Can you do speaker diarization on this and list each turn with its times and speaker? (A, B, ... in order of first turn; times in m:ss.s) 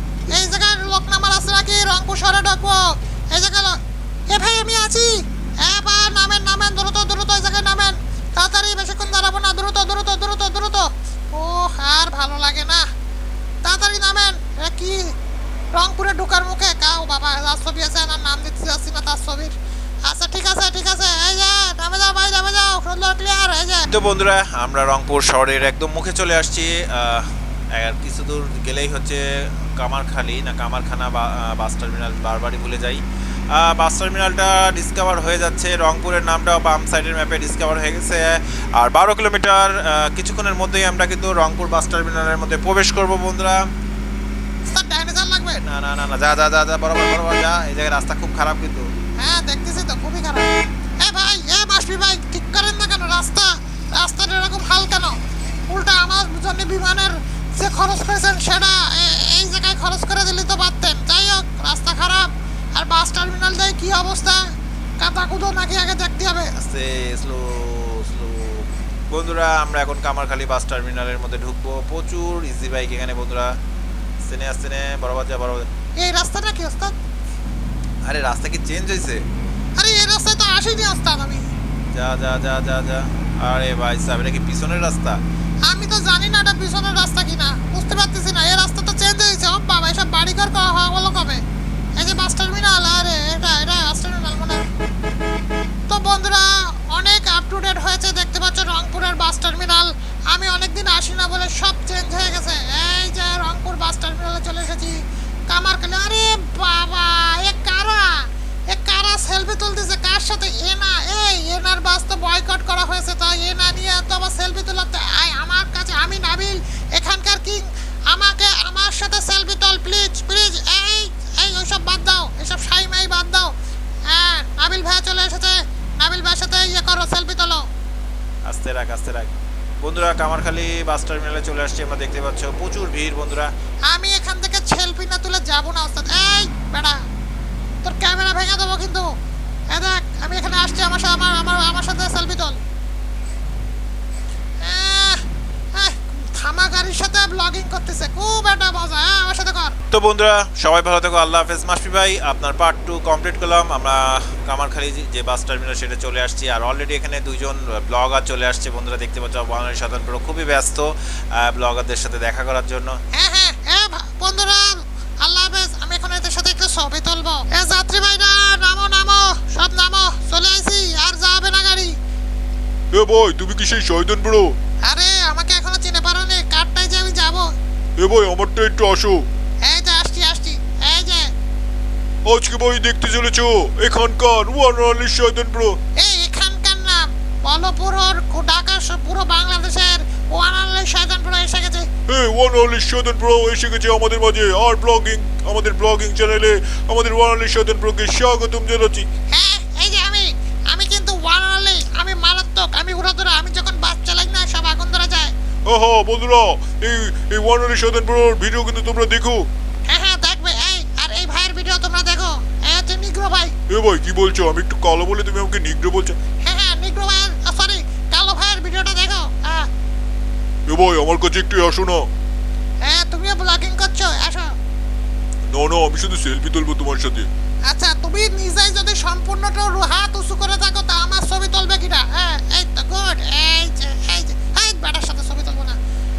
0:00.3-0:12.9 A
0:13.6-0:15.1 A
0:15.7-0:19.5 A
0:20.0-0:23.9 A
0:23.9-0:29.2 B
0:29.8-0:33.0 B
0:33.5-0:43.6 B
0:44.6-0:45.6 A
0:45.6-0:48.9 B
0:49.2-0:50.5 A
0:51.0-0:55.2 A
0:55.7-1:06.5 A
1:06.6-1:13.6 B
1:14.2-1:15.7 B
1:16.0-1:16.9 A
1:18.0-1:19.2 B
1:19.8-1:21.4 A
1:21.9-1:25.2 B
1:25.6-1:31.4 A
1:32.0-1:34.6 A
1:35.9-2:03.5 A
2:04.1-2:07.7 A
2:08.4-2:13.5 B
2:13.9-2:17.0 A
2:17.8-2:19.1 A
2:19.7-2:22.6 A
2:24.6-2:29.8 A
2:29.9-2:43.0 B
2:43.1-2:51.9 A
2:52.9-2:54.6 C
2:54.8-2:57.5 A
2:58.0-2:59.2 C
2:59.6-3:01.3 A
3:02.3-3:05.8 C
3:06.0-3:11.9 A
3:12.1-3:19.1 C
3:19.3-3:25.3 A
3:25.6-3:29.4 C
3:29.9-3:33.6 A
3:33.7-3:36.2 C
3:36.4-3:39.7 A
3:40.7-3:42.1 C
3:42.8-3:44.5 A
3:45.5-3:47.3 C
3:47.7-3:55.8 A